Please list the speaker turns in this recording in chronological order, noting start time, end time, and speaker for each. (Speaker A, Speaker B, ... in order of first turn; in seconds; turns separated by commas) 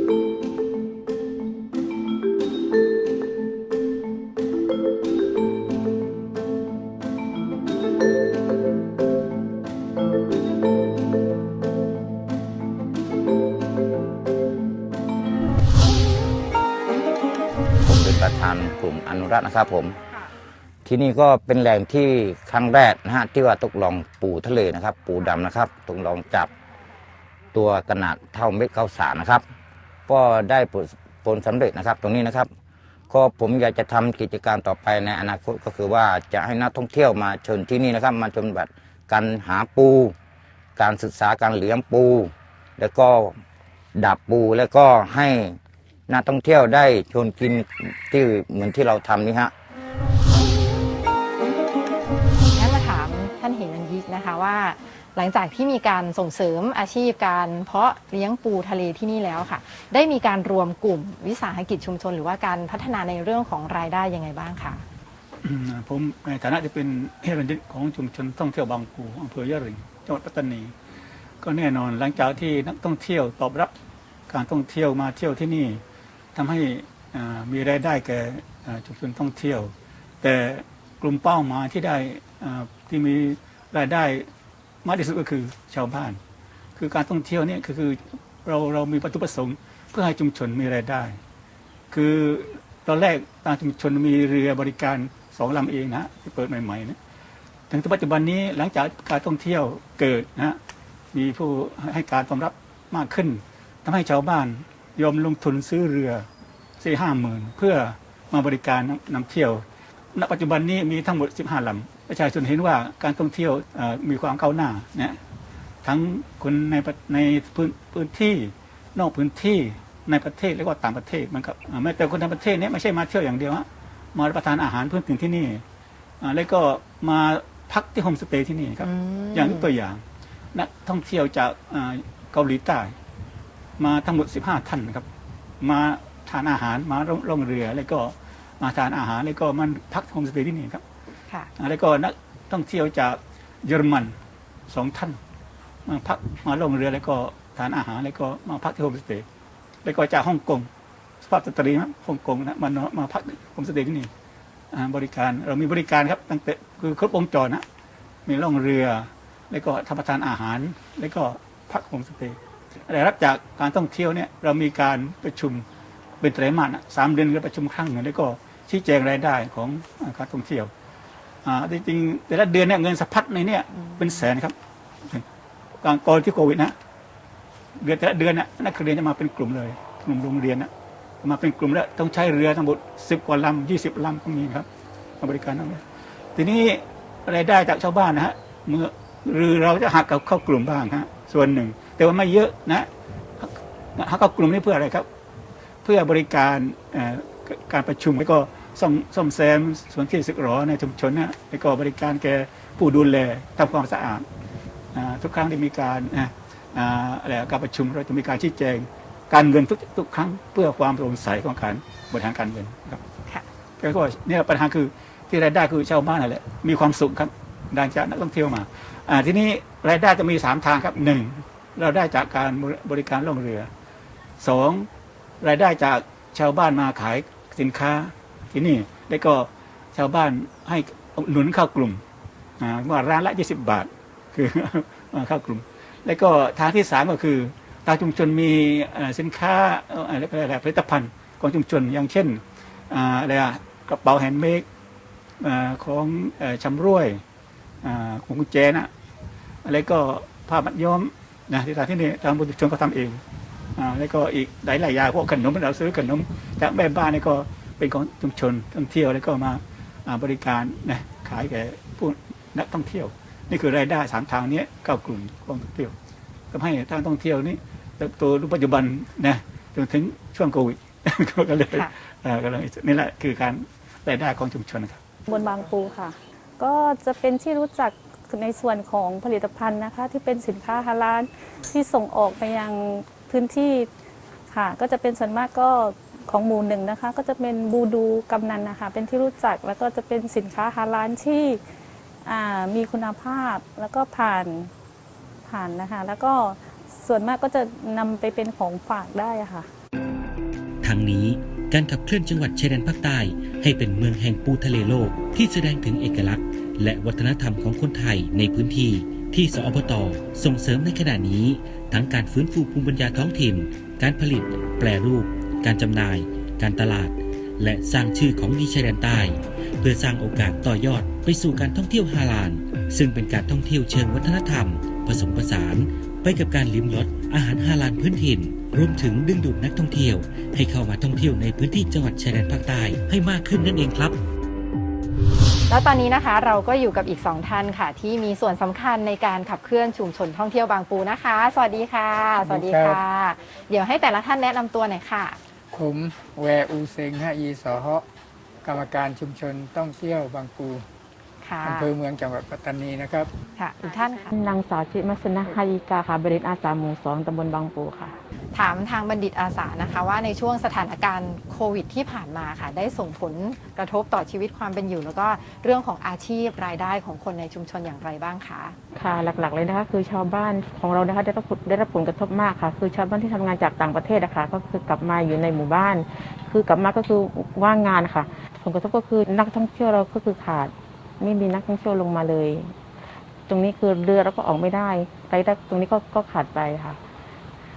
Speaker A: 17.9-20.0, Speaker A: 20.9-26.5, Speaker A: 27.5-29.5, Speaker A: 30.1-32.5, Speaker A: 33.1-40.1, Speaker A: 40.8-43.4, Speaker A: 44.0-49.5, Speaker B: 52.5-64.8, Speaker C: 65.4-70.7, Speaker C: 71.4-73.7, Speaker C: 74.3-75.8, Speaker C: 76.3-84.3, Speaker C: 84.8-86.2, Speaker C: 86.8-91.2, Speaker C: 91.9-97.0, Speaker C: 97.7-100.6, Speaker C: 101.1-106.3, Speaker C: 106.8-109.6, Speaker C: 110.2-115.2, Speaker C: 115.8-125.6, Speaker C: 126.2-130.0, Speaker B: 128.8-129.7, Speaker C: 130.5-132.9, Speaker C: 133.8-135.1, Speaker C: 135.6-140.8, Speaker C: 141.6-144.2, Speaker C: 144.7-145.2, Speaker C: 145.9-149.2, Speaker C: 149.8-150.7, Speaker C: 151.2-154.1, Speaker C: 154.7-157.6, Speaker C: 158.3-162.4, Speaker C: 162.9-165.6, Speaker C: 166.2-170.7, Speaker C: 171.4-174.6, Speaker C: 175.8-176.7, Speaker C: 177.8-180.7, Speaker C: 181.2-184.7, Speaker C: 185.2-185.8, Speaker C: 186.4-192.9, Speaker C: 193.4-195.1, Speaker C: 195.8-204.2, Speaker C: 204.9-213.0, Speaker C: 213.8-223.7, Speaker C: 224.4-224.9, Speaker C: 225.4-232.0, Speaker C: 232.6-244.7, Speaker C: 245.4-247.2, Speaker C: 247.8-248.9, Speaker C: 249.7-253.2, Speaker C: 253.8-265.9, Speaker C: 266.5-275.0, Speaker D: 275.3-283.9, Speaker D: 284.5-291.6, Speaker D: 292.2-294.7, Speaker D: 295.5-299.7, Speaker E: 300.8-317.1, Speaker F: 303.3-303.7, Speaker F: 308.2-309.3, Speaker F: 310.2-310.6, Speaker F: 311.4-311.8, Speaker F: 313.0-313.9, Speaker F: 315.6-334.1, Speaker E: 317.7-318.2, Speaker E: 319.0-319.3, Speaker E: 319.8-322.2, Speaker E: 323.1-324.5, Speaker E: 325.2-325.8, Speaker E: 326.5-334.1, Speaker B: 335.7-345.4, Speaker G: 342.4-343.0, Speaker G: 345.7-348.1, Speaker G: 348.6-350.9, Speaker B: 351.4-351.9, Speaker G: 351.6-353.3, Speaker B: 353.6-354.4, Speaker F: 354.3-358.2, Speaker B: 358.5-368.8, Speaker F: 368.9-382.7, Speaker F: 383.5-387.0